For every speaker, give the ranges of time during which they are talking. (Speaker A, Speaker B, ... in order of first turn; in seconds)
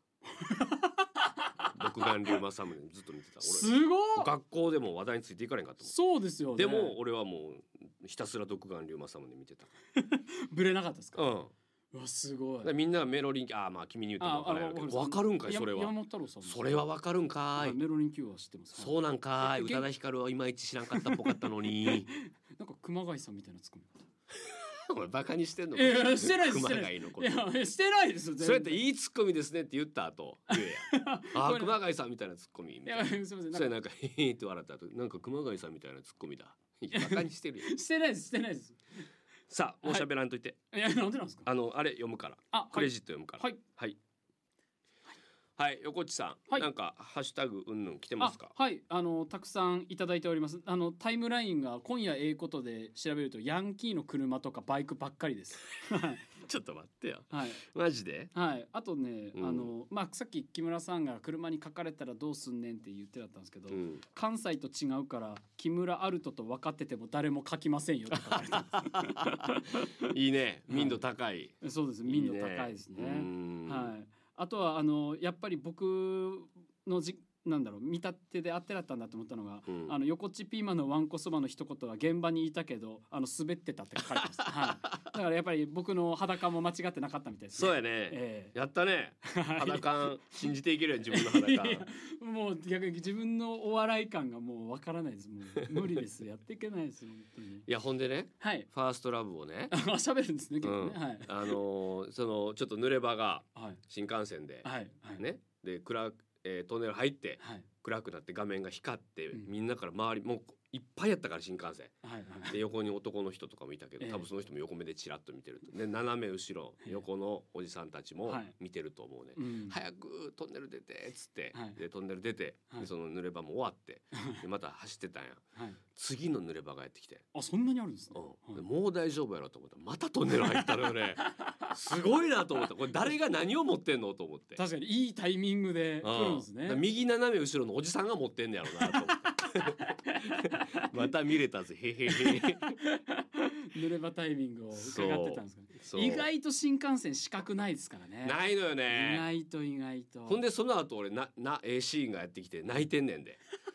Speaker A: 0.3-2.4, 3.4-4.3, 5.8-7.0, 10.0-11.3, 11.9-12.7, 14.2-16.8, 17.6-19.9, 20.9-24.1, 25.7-28.8, 30.5-31.8, 32.9-33.7, 36.9-38.8, 40.7-41.5, 42.5-43.6, 48.2-56.3, 57.3-57.6, 58.3-70.1, 70.7-71.0, 71.6-88.5, 89.2-90.4, 91.1-97.7, 98.4-98.7, 99.7-101.6, 103.5-103.8, 104.6-105.2, 107.4-107.7, 112.0-112.6, 114.0-114.3, 118.3-118.5, 119.4-119.8, 121.5-121.8, 124.2-124.4, 127.3-128.7, 134.6-136.8, 138.8-140.9, 142.1-150.4
Speaker B: 1.7-5.9, 6.6-9.7, 11.2-11.5, 12.6-17.8, 18.8-22.1, 24.4-27.4, 28.4-37.7, 39.5-40.6, 41.5-44.0, 45.6-48.5, 56.4-58.3, 59.4-59.7, 63.7-64.0, 68.3-73.9, 79.7-80.0, 87.5-91.9, 97.7-99.7, 100.6-104.7, 105.2-112.0, 112.5-125.4, 125.9-127.3, 128.1-134.6, 136.0-142.8, 144.7-146.3, 148.2-149.3, 150.3-153.4